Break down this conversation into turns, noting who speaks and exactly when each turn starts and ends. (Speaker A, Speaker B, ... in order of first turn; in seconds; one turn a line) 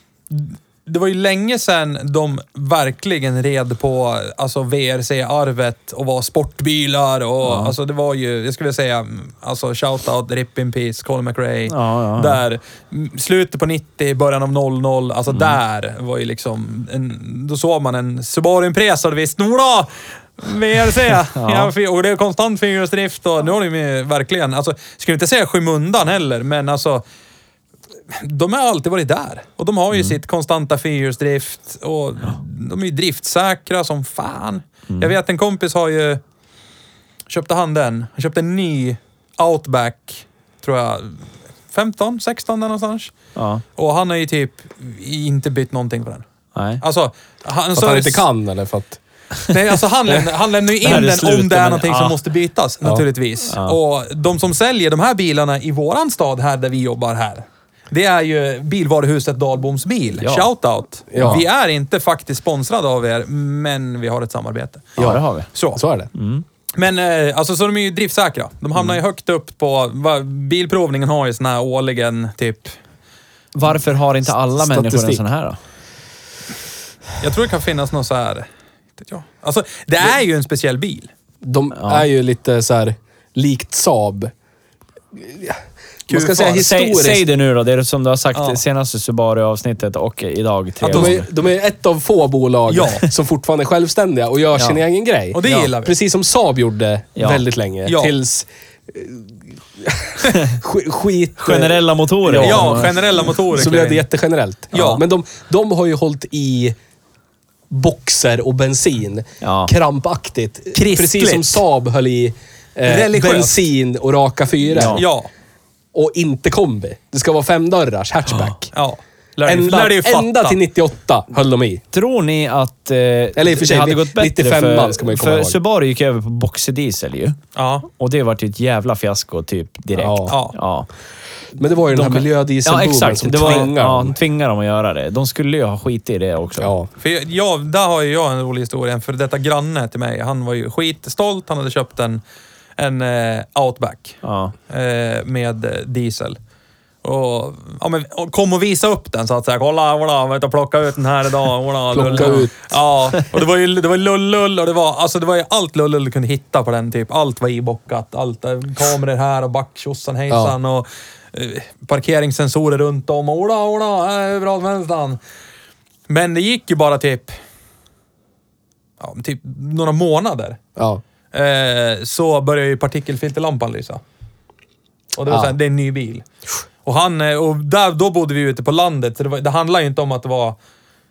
Speaker A: 0.3-27.0
Speaker B: 7.4-7.7
Speaker B: 11.7-12.4
Speaker B: 15.3-15.6
Speaker B: 21.3-21.7
Speaker A: 28.1-36.2
Speaker B: 29.9-30.2
Speaker B: 34.9-35.1
Speaker A: 37.3-43.1
Speaker B: 43.3-43.6
Speaker A: 43.8-46.2
Speaker B: 46.5-46.8
Speaker A: 46.8-48.2
Speaker C: 47.8-49.0
Speaker A: 49.5-65.0
Speaker B: 50.8-52.2
Speaker B: 53.5-53.8
Speaker B: 60.2-60.5
Speaker C: 61.1-61.4
Speaker B: 65.0-65.5
Speaker A: 65.5-65.8
Speaker C: 65.8-66.1
Speaker B: 66.1-66.4
Speaker A: 66.8-72.8
Speaker B: 73.5-75.6
Speaker C: 74.5-75.2
Speaker A: 77.2-78.5
Speaker A: 79.0-81.1
Speaker C: 81.4-84.3
Speaker B: 81.7-82.1
Speaker C: 85.2-87.2
Speaker A: 86.1-86.7
Speaker B: 86.5-91.3
Speaker A: 88.3-88.6
Speaker A: 90.8-91.2
Speaker C: 90.8-103.0
Speaker A: 92.7-93.1
Speaker B: 94.5-94.8
Speaker A: 95.3-95.9
Speaker B: 97.2-97.4
Speaker A: 97.8-98.1
Speaker B: 101.4-103.3
Speaker A: 102.4-104.0
Speaker C: 103.5-106.7
Speaker A: 104.7-105.0
Speaker C: 107.7-115.0
Speaker B: 109.4-109.7
Speaker A: 110.7-111.6
Speaker A: 112.8-113.7
Speaker B: 114.7-115.0
Speaker A: 114.9-115.3
Speaker C: 115.9-118.7
Speaker A: 118.7-120.6
Speaker C: 119.5-121.8
Speaker B: 121.9-130.9
Speaker C: 123.3-125.6
Speaker A: 127.5-127.9
Speaker C: 129.9-130.3
Speaker A: 130.3-130.6
Speaker C: 131.6-134.2
Speaker B: 131.9-136.7
Speaker A: 133.4-133.7
Speaker C: 136.6-136.9
Speaker A: 137.0-142.2
Speaker A: 142.8-146.4
Speaker B: 144.2-144.5
Speaker A: 147.0-165.2
Speaker C: 151.9-152.7
Speaker C: 160.3-160.5
Speaker A: 166.1-167.3
Speaker A: 169.0-170.6
Speaker C: 170.8-171.0
Speaker A: 171.3-174.0
Speaker A: 175.2-176.2
Speaker A: 176.8-180.6